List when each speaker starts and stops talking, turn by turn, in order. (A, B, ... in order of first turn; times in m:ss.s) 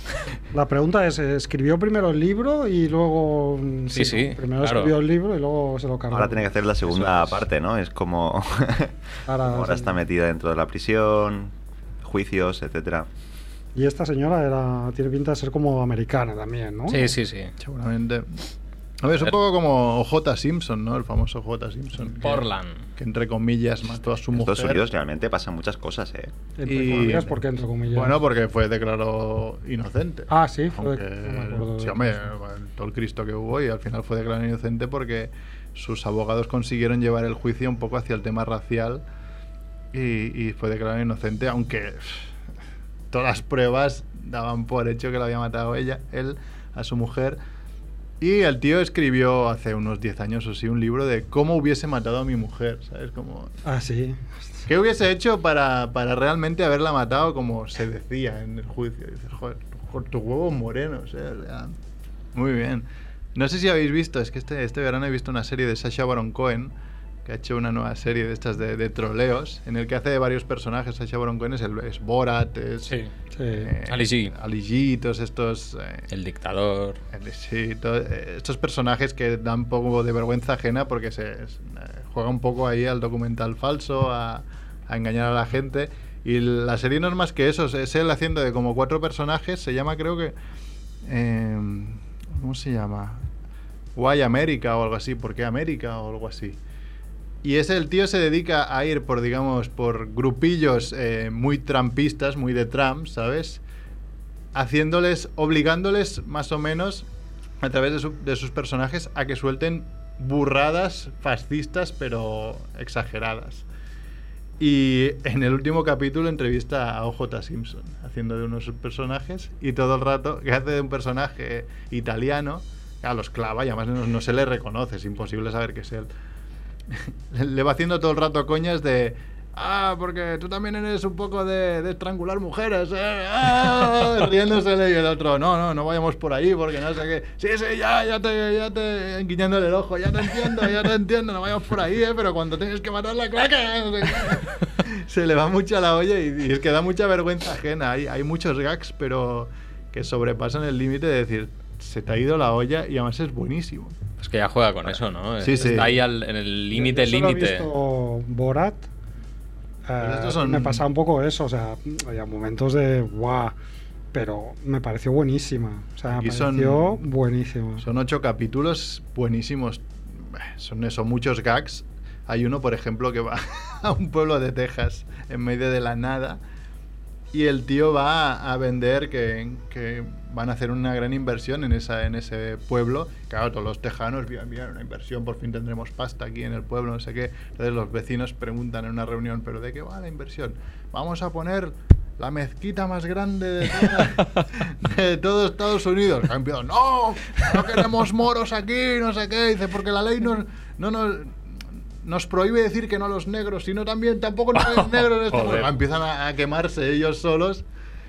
0:00.5-0:06.5 A
0:03.9-0:04.9 B
0:06.1-0:13.1 C
0:06.9-0:07.4 B
0:09.3-0:10.0 A
0:13.7-0:17.1 A
0:16.9-0:17.5 B
0:17.6-0:18.4 D
0:19.0-0:22.4 D
0:22.2-0:22.8 B
0:23.0-0:24.8 D
0:24.3-0:26.3 C
0:26.6-0:28.2 A
0:26.6-0:27.4 D
0:27.9-0:39.0 D
0:30.3-0:32.3 A
0:39.9-0:42.3 D
0:43.1-0:47.4 D
0:48.2-0:53.5 D
0:53.6-0:54.3 A
0:54.7-1:01.7 D
1:02.3-1:06.7 D
1:07.2-1:13.0 D
1:13.3-1:13.7 A
1:13.5-1:16.1 D
1:13.9-1:14.3 B
1:16.1-1:17.0 B
1:17.1-1:30.3 D
1:31.0-1:33.2 D
1:34.0-1:36.6 D
1:37.4-1:43.6 D
1:44.5-1:47.0 D
1:47.6-1:53.6 D
1:54.6-2:06.1 D
2:06.9-2:34.0 D
2:34.2-2:37.7 B
2:35.4-2:36.0 D
2:36.7-2:38.9 A
2:39.9-2:43.5 A
2:40.0-2:40.8 D
2:44.1-2:47.8 A
2:46.1-2:47.0 D
2:47.8-2:56.4 D
2:57.3-3:27.6 D
3:24.5-3:25.7 B